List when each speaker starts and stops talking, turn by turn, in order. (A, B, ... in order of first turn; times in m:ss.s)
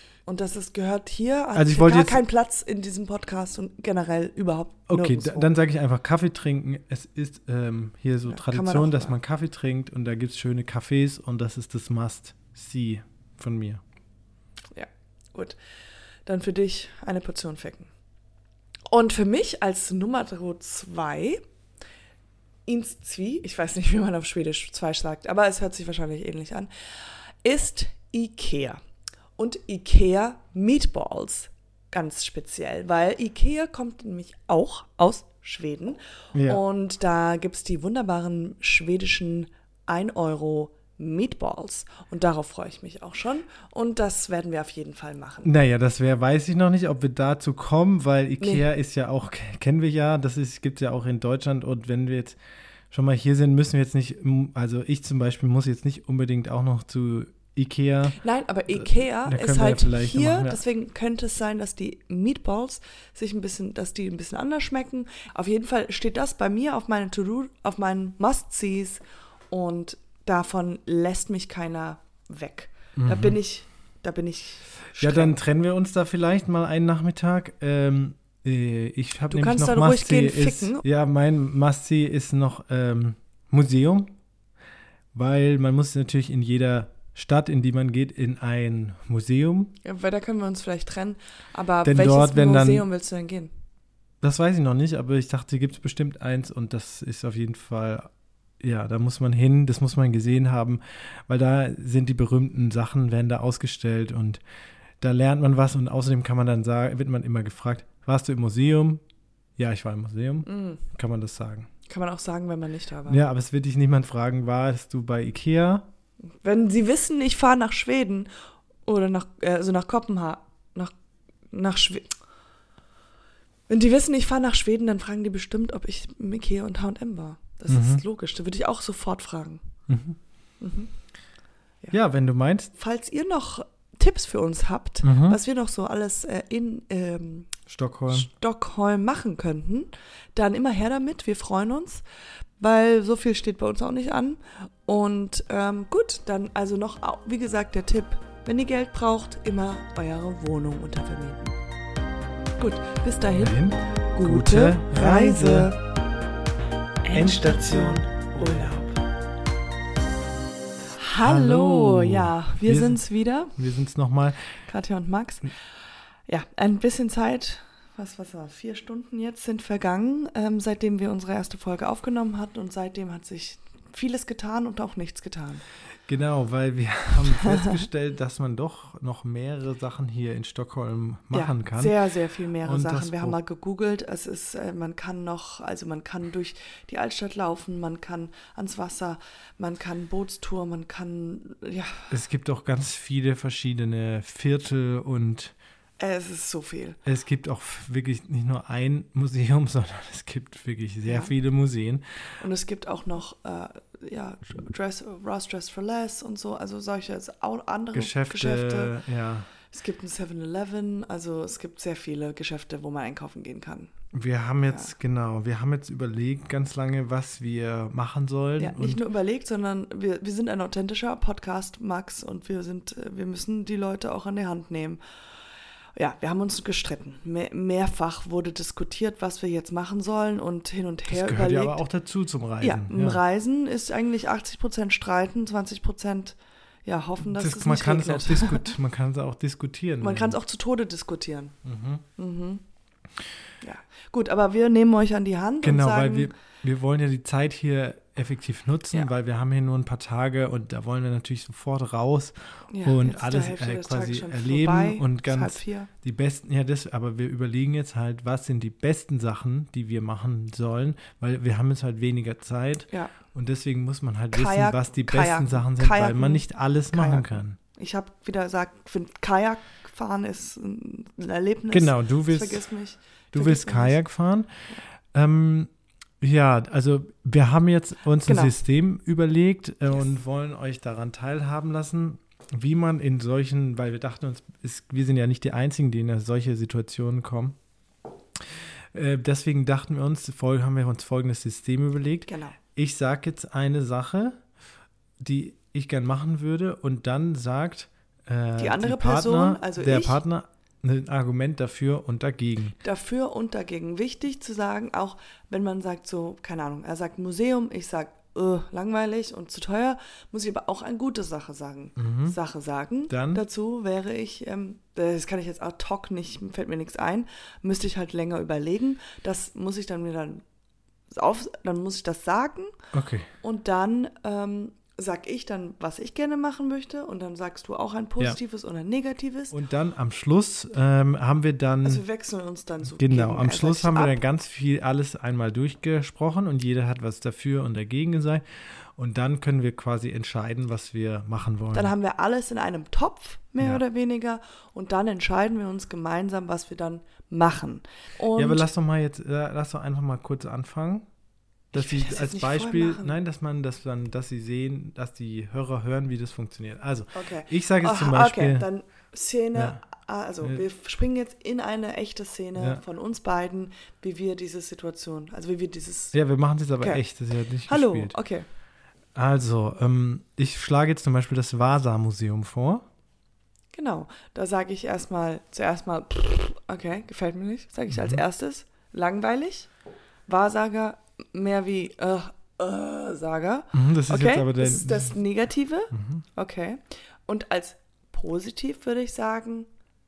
0:00.2-0:05.5 A
0:01.5-0:02.2 B
0:04.9-0:13.8 B
0:08.3-0:09.2 A
0:14.7-0:15.6 A
0:16.2-0:17.9 A
0:18.9-0:21.4 A
0:22.6-0:26.7 A
0:27.4-0:28.8 A
0:29.4-0:45.5 A
0:36.3-0:36.6 B
0:45.4-0:52.4 B
0:48.4-0:48.6 A
0:52.9-0:58.2 B
0:58.2-1:15.4 A
0:58.8-1:00.6 B
1:13.0-1:13.4 B
1:15.0-1:24.1 B
1:19.3-1:20.8 A
1:25.1-1:29.7 B
1:29.8-1:33.5 A
1:31.8-1:32.8 B
1:34.2-1:38.1 B
1:38.6-1:44.4 B
1:45.0-1:49.0 B
1:49.6-1:51.7 B
1:50.5-1:50.8 A
1:51.9-1:53.2 A
1:53.1-1:55.9 B
1:56.4-1:58.3 A
1:58.8-2:00.9 A
2:01.5-2:02.1 A
2:03.7-2:09.6 A
2:07.7-2:08.0 B
2:09.9-2:10.2 B
2:10.6-2:10.9 A
2:11.9-2:12.7 B
2:12.8-2:17.5 A
2:15.0-2:15.4 B
2:17.7-2:18.3 B
2:18.1-2:22.0 A
2:22.6-2:31.6 A
2:32.6-2:33.6 A
2:33.4-2:35.7 B
2:34.1-2:35.8 A
2:37.0-2:38.9 A
2:41.0-2:43.5 A
2:41.2-2:43.0 B
2:43.5-2:44.5 B
2:44.6-2:45.5 A
2:46.3-2:55.6 A
2:56.1-3:02.0 B
2:57.4-2:57.8 A
3:01.3-3:12.2 A
3:02.6-3:03.4 B
3:12.1-3:15.5 B
3:16.0-3:17.0 A
3:17.0-3:22.0 B
3:21.0-3:21.3 A
3:22.4-3:28.9 A
3:27.9-3:29.5 B
3:29.7-3:33.9 A
3:34.1-3:39.0 B
3:38.6-3:45.0 A
3:46.0-3:51.8 A
3:51.1-3:53.2 B
3:52.6-3:58.7 A
3:57.3-4:00.4 B
4:00.0-4:01.5 A
4:01.6-4:02.0 B
4:02.2-4:02.6 A
4:03.6-4:06.3 A
4:05.6-4:27.6 B
4:12.7-4:15.9 A
4:24.3-4:34.0 A
4:31.7-4:32.6 B
4:33.3-4:34.5 B
4:35.1-4:47.6 B
4:38.2-4:38.5 A
4:48.9-4:54.4 B
4:52.3-4:52.6 A
4:55.2-5:02.8 B
4:58.6-5:00.2 A
5:02.8-5:20.4 A
5:12.0-5:12.4 B
5:13.1-5:13.4 B
5:21.1-5:22.7 A
5:22.9-5:23.3 B
5:23.4-5:29.5 A
5:29.5-5:32.0 B
5:31.8-5:34.2 A
5:32.9-5:38.4 B
5:39.0-5:41.9 B
5:41.7-5:48.6 A
5:48.4-5:51.0 B
5:51.7-5:58.7 B
5:51.7-5:53.2 A
5:57.1-6:06.1 A
5:59.5-5:59.8 B
6:02.6-6:02.8 B
6:06.1-6:08.2 B
6:06.8-6:07.0 A
6:07.7-6:08.5 A
6:09.1-6:12.8 B
6:13.7-6:19.7 A
6:17.9-6:18.2 B
6:20.3-6:29.7 A
6:23.7-6:25.2 B
6:25.9-6:26.2 B